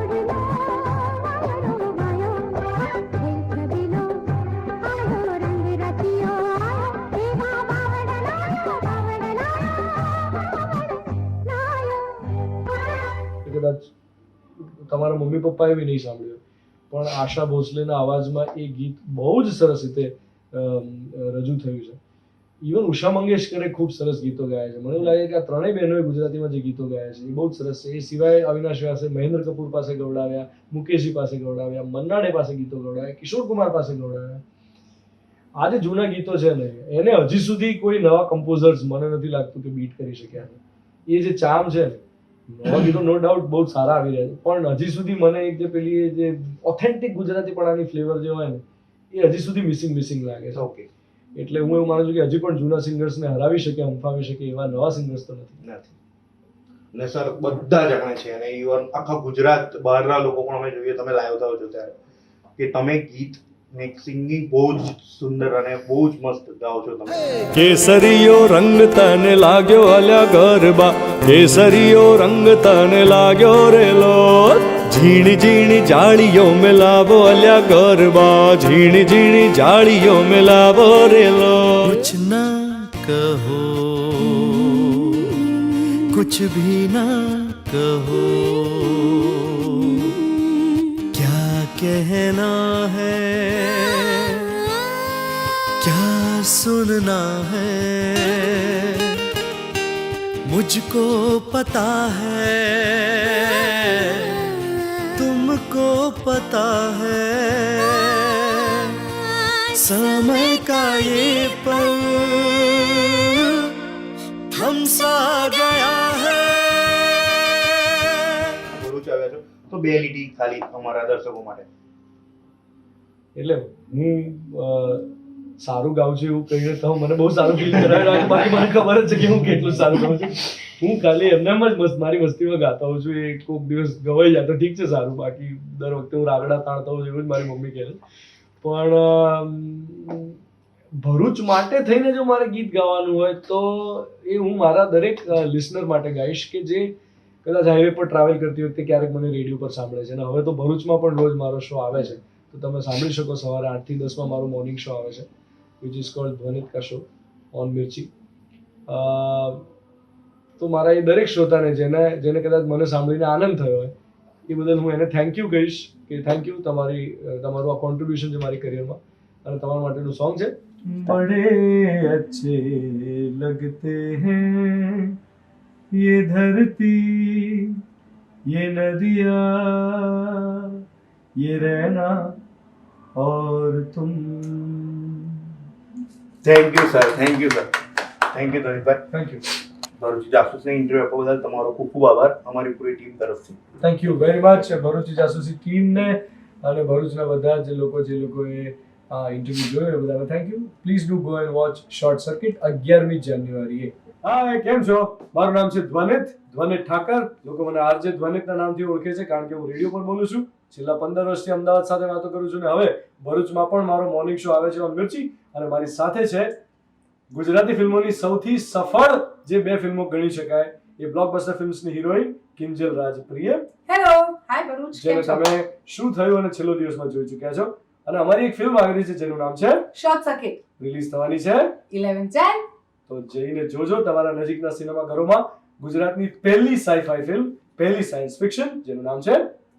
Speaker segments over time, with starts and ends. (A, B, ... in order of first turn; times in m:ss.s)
0:13.4-0:13.9 A
0:14.6-0:22.0 A
0:22.6-0:34.4 A
0:35.6-0:50.7 A
0:50.5-0:50.9 B
0:51.3-0:55.6 A
0:55.6-0:55.9 B
0:56.9-1:01.9 B
1:02.6-1:07.4 B
1:07.5-1:22.0 C
1:21.8-1:25.4 D
1:26.1-1:30.1 D
1:31.1-1:34.6 D
1:35.8-1:39.2 D
1:40.4-1:44.5 D
1:45.2-1:49.0 D
1:49.7-1:53.7 D
1:54.5-1:58.6 D
1:58.7-2:01.6 B
2:03.3-2:18.0 A
2:18.6-2:20.3 A
2:21.0-2:26.9 A
2:27.4-2:35.2 A
2:35.8-2:38.1 A
2:38.9-2:39.7 A
2:40.6-2:43.9 A
2:44.5-2:55.1 A
2:55.9-2:57.8 A
2:58.5-3:00.7 A
3:01.4-3:02.4 A
3:03.2-3:05.2 A
3:06.4-3:07.8 B
3:08.3-3:09.0 B
3:09.1-3:09.4 A
3:10.0-3:13.6 B
3:13.8-3:36.6 A
3:37.3-3:43.7 A
3:43.9-3:45.5 E
3:44.9-3:49.9 A
3:49.9-3:50.6 E
3:50.8-3:51.8 A
3:51.9-3:52.6 E
3:53.1-3:59.5 A